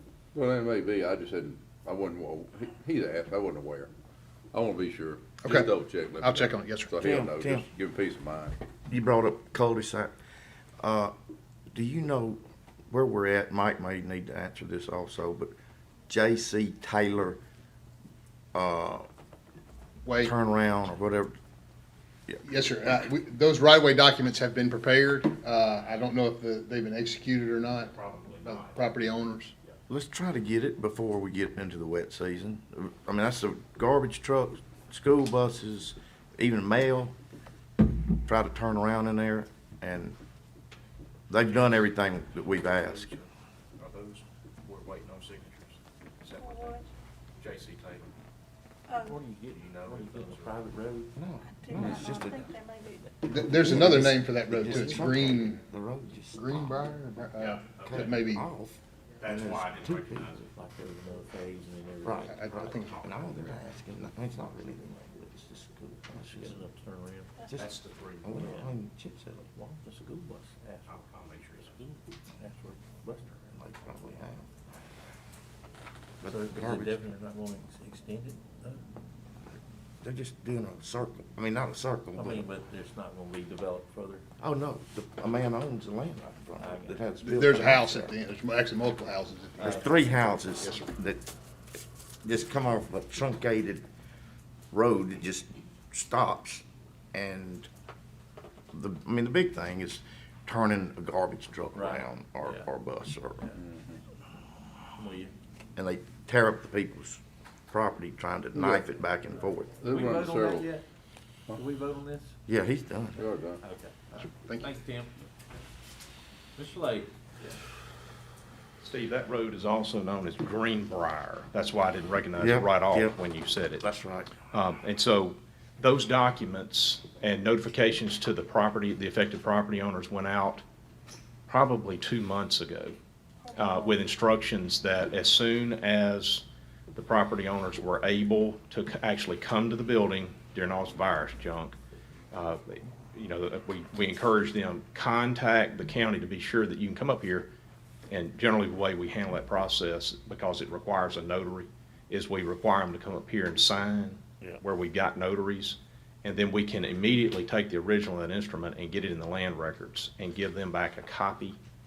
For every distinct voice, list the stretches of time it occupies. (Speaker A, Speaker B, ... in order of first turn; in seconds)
Speaker A: 0.3-3.9, 4.5-8.6, 103.5-104.0, 109.8-110.7, 113.2-113.6
Speaker B: 5.4-5.7, 6.2-7.0, 20.0-20.3, 22.4-29.5, 53.2-55.6, 56.3-58.4, 62.3-63.1, 87.2-89.9, 114.1-114.7
Speaker C: 7.0-7.7, 8.9-10.1, 10.8-11.1, 11.7-15.5, 16.1-17.4, 18.5-19.1, 20.2-21.3, 29.9-37.1, 37.9-40.1, 41.3-43.1, 51.1-52.5, 53.3-56.9, 57.8-60.3, 62.0-66.6, 67.4-69.5, 73.5-74.5, 76.2-77.0, 80.0-82.5, 84.4-88.1, 89.6-91.2, 92.2-93.8, 94.7-97.7, 98.7-103.5, 105.8-109.8, 112.5-113.2, 122.4-123.2, 123.8-124.3
Speaker D: 27.9-28.9, 41.5-46.8, 47.4-48.1, 49.5-50.6, 57.4-58.2, 59.2-60.4, 62.8-63.1, 67.5-68.6, 70.9-71.7, 118.8-123.8, 124.5-130.6, 131.5-133.0, 133.5-141.8, 142.3-147.5, 148.1-161.6
Speaker E: 46.4-46.9, 48.9-49.2, 51.5-53.4, 133.4-134.0
Speaker F: 49.0-51.1, 60.4-62.3, 66.1-67.3, 68.3-68.7, 69.4-71.0, 71.6-73.4, 76.2-78.8, 82.1-84.2, 86.6-87.0, 89.6-89.9, 101.7-102.7, 104.9-105.3, 109.8-110.8, 111.5-112.3, 113.6-113.9, 114.5-115.2, 116.5-117.6